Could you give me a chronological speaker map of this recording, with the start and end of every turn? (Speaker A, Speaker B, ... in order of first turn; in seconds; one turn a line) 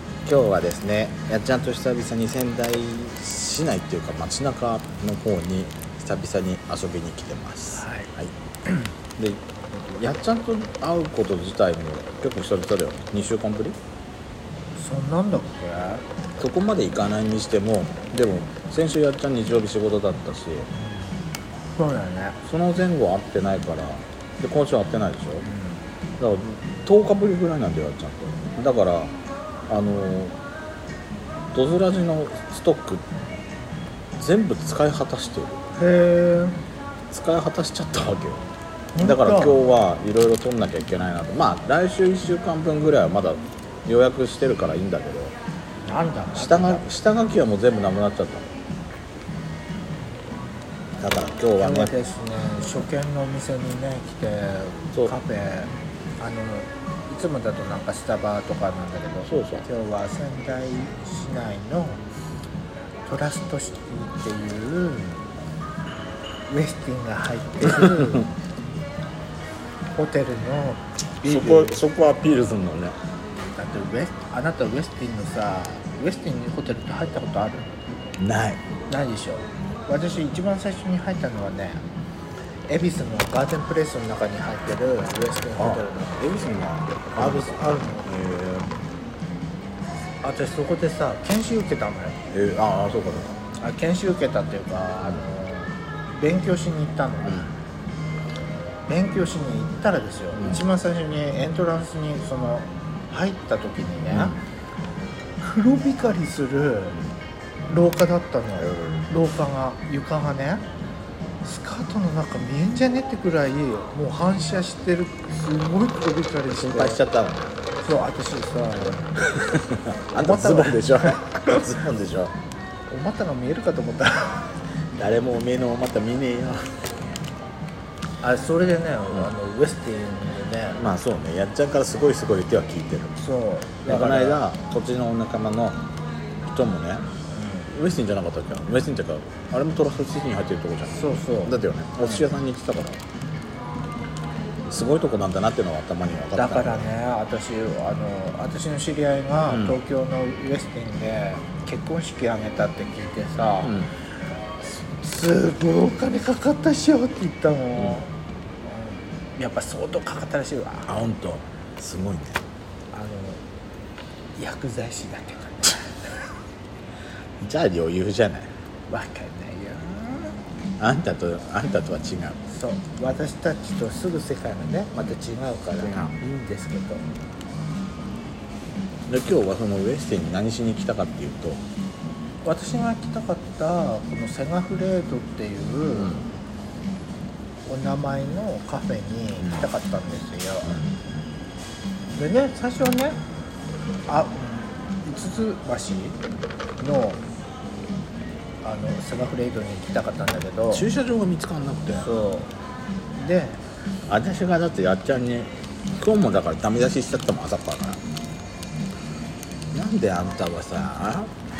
Speaker A: 0.2-8.3
Speaker B: 7.7-8.1
Speaker A: 9.2-13.8
Speaker B: 14.8-16.0
Speaker A: 16.4-20.7
Speaker B: 20.7-22.4
Speaker A: 22.4-25.5
Speaker B: 25.4-25.8
Speaker A: 26.2-29.1
Speaker A: 29.7-30.4
Speaker A: 31.5-33.0
Speaker A: 34.2-35.6
Speaker B: 35.8-36.6
Speaker A: 37.1-38.4
Speaker B: 38.9-39.7
Speaker A: 39.0-45.3
Speaker B: 45.9-46.9
Speaker A: 46.3-48.5
Speaker A: 51.0-51.9
Speaker B: 51.6-62.0
Speaker A: 59.2-59.7
Speaker B: 63.0-65.2
Speaker B: 66.5-68.3
Speaker A: 67.8-68.2
Speaker B: 69.9-71.8
Speaker A: 71.2-73.0
Speaker B: 73.5-77.7
Speaker A: 78.2-78.6
Speaker B: 78.9-81.8
Speaker B: 82.7-88.1
Speaker A: 85.6-88.7
Speaker B: 90.2-92.2
Speaker A: 92.3-93.4
Speaker B: 93.6-97.5
Speaker A: 97.2-97.5
Speaker B: 98.9-104.4
Speaker A: 100.3-100.6
Speaker A: 104.1-104.4
Speaker B: 105.4-107.0
Speaker B: 107.7-110.7
Speaker A: 108.7-109.1
Speaker B: 111.4-117.0
Speaker A: 116.5-117.6
Speaker B: 117.8-119.1
Speaker A: 119.4-122.3
Speaker B: 120.1-121.6
Speaker B: 122.9-124.6
Speaker A: 125.0-126.8
Speaker B: 128.2-130.8
Speaker A: 130.8-133.2
Speaker B: 133.2-134.4
Speaker A: 133.9-135.8
Speaker A: 136.5-137.1
Speaker B: 137.3-137.7
Speaker A: 137.7-143.0
Speaker B: 140.9-142.3
Speaker A: 144.7-146.9
Speaker B: 146.3-153.8
Speaker A: 149.5-149.8
Speaker A: 153.6-153.9
Speaker B: 154.6-158.1
Speaker A: 157.8-158.0
Speaker B: 158.6-161.0
Speaker A: 160.9-162.4
Speaker B: 162.9-163.4
Speaker B: 164.4-166.3
Speaker A: 167.4-168.5
Speaker B: 168.9-170.4
Speaker A: 170.8-172.4
Speaker B: 172.5-177.1
Speaker A: 175.8-176.5
Speaker A: 179.1-181.6
Speaker B: 182.4-186.2
Speaker A: 185.9-186.3
Speaker B: 187.7-190.8
Speaker A: 189.4-189.7
Speaker A: 190.7-191.1
Speaker B: 192.2-193.2
Speaker B: 194.1-196.2
Speaker B: 196.8-197.2
Speaker B: 198.6-200.9
Speaker A: 200.7-202.1
Speaker B: 201.9-202.5
Speaker B: 203.2-203.6
Speaker A: 204.1-208.0
Speaker A: 209.7-211.3